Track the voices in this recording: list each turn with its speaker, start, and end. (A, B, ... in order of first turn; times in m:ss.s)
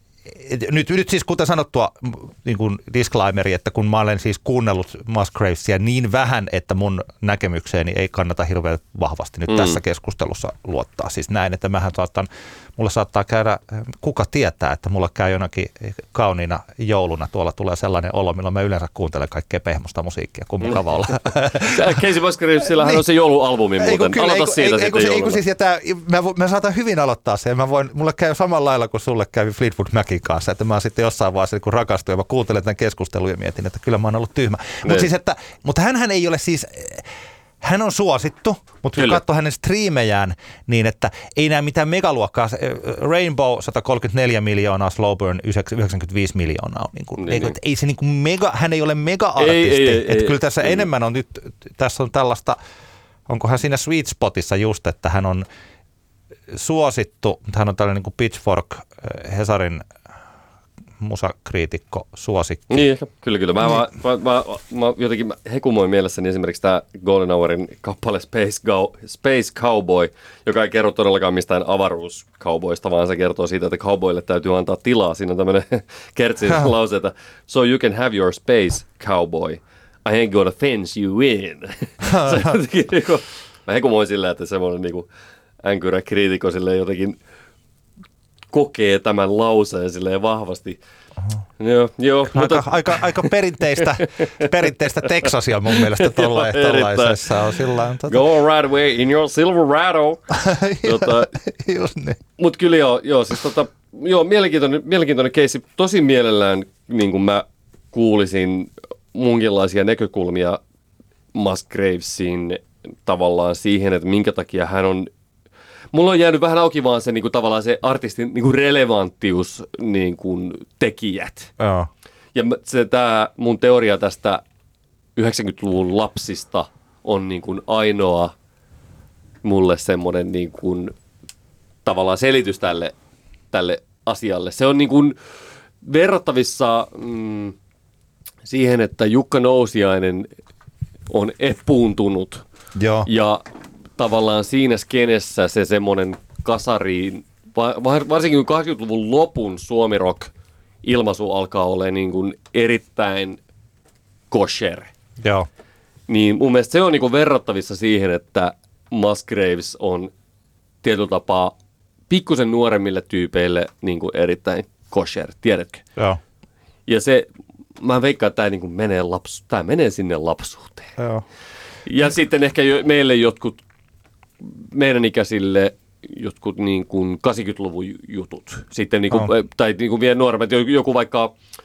0:00.3-0:22.0 A
0:09.5-0:09.8 B
0:21.6-0:25.4 B
0:23.8-0:37.1 A
0:34.8-0:35.1 B
0:37.6-0:52.6 A
0:47.2-0:47.5 B
0:49.4-0:50.8 B
0:53.3-0:55.4 A
0:56.5-0:59.8 A
1:01.0-1:02.8 A
1:02.7-1:25.1 B
1:22.1-1:22.5 A
1:25.6-1:27.2 B
1:28.5-1:30.8 B
1:31.6-1:33.3 B
1:32.3-1:38.2 A
1:34.0-1:34.5 B
1:35.0-1:37.3 B
1:38.0-1:41.3 B
1:40.3-1:42.2 A
1:42.4-1:50.6 B
1:51.3-1:55.1 B
1:55.9-2:01.5 B
2:01.6-2:01.9 A
2:02.3-2:04.4 B
2:05.2-2:08.3 B
2:09.4-2:10.9 B
2:11.8-2:12.9 B
2:13.5-2:15.2 B
2:15.8-2:17.5 B
2:18.4-2:20.3 B
2:21.1-2:22.4 B
2:22.8-2:23.1 A
2:23.0-2:23.4 B
2:24.0-2:30.3 B
2:30.8-2:33.4 B
2:34.3-2:34.9 B
2:35.2-2:35.5 A
2:36.1-2:40.1 B
2:40.8-2:41.5 B
2:42.1-2:45.8 B
2:46.9-2:47.3 B
2:47.8-2:51.0 B
2:51.0-2:51.2 A
2:51.8-2:53.6 B
2:54.7-3:01.3 B